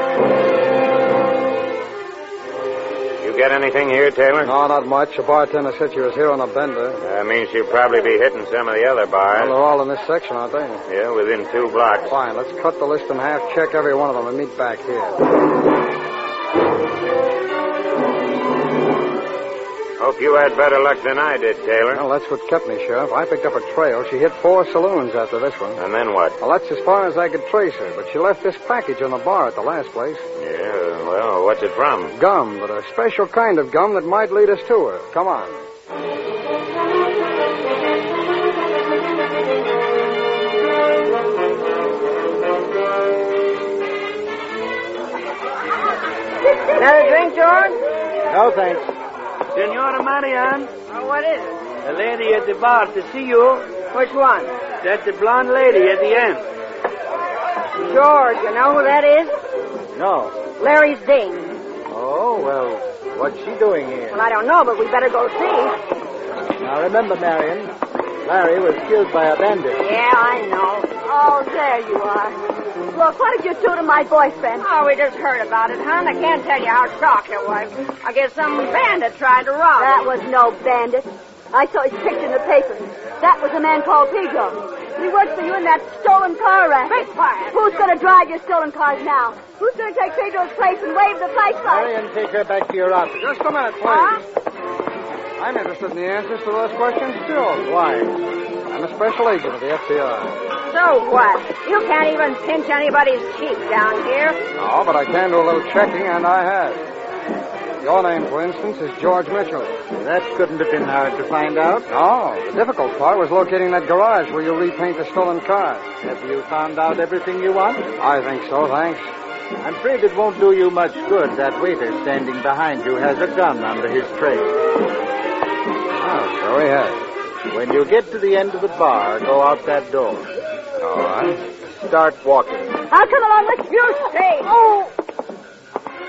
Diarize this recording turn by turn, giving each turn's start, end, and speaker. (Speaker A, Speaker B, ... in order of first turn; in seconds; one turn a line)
Speaker A: 3.2-4.5
Speaker B: 4.4-7.0
Speaker A: 7.0-9.5
Speaker B: 9.4-10.8
Speaker A: 10.9-12.1
Speaker B: 12.1-15.2
Speaker A: 20.0-22.0
Speaker B: 21.9-25.8
Speaker A: 25.8-26.4
Speaker B: 26.4-30.2
Speaker A: 30.4-32.1
Speaker B: 32.1-35.6
Speaker C: 46.7-47.8
Speaker D: 48.3-48.9
Speaker E: 49.5-50.7
Speaker C: 50.9-51.6
Speaker E: 51.8-53.8
Speaker C: 53.9-54.6
Speaker E: 54.8-56.5
Speaker C: 57.8-59.3
Speaker D: 59.9-60.5
Speaker C: 60.6-61.6
Speaker D: 61.9-64.2
Speaker C: 64.1-65.8
Speaker D: 66.6-67.7
Speaker D: 68.2-69.8
Speaker C: 69.8-71.0
Speaker F: 71.0-72.4
Speaker F: 72.9-74.7
Speaker C: 74.6-80.0
Speaker F: 79.8-91.9
Speaker C: 86.9-87.8
Speaker D: 91.7-93.3
Speaker B: 93.2-94.2
Speaker B: 95.4-97.7
Speaker D: 97.6-98.2
Speaker B: 98.7-100.4
Speaker C: 100.6-104.4
Speaker B: 104.6-106.8
Speaker B: 107.8-109.8
Speaker D: 110.0-111.9
Speaker B: 111.9-115.9
Speaker D: 116.0-117.9
Speaker B: 118.0-119.1
Speaker D: 119.6-124.5
Speaker B: 126.0-127.0
Speaker D: 127.5-130.3
Speaker B: 130.8-131.4
Speaker D: 131.6-132.8
Speaker F: 132.9-134.8
Speaker C: 134.0-134.5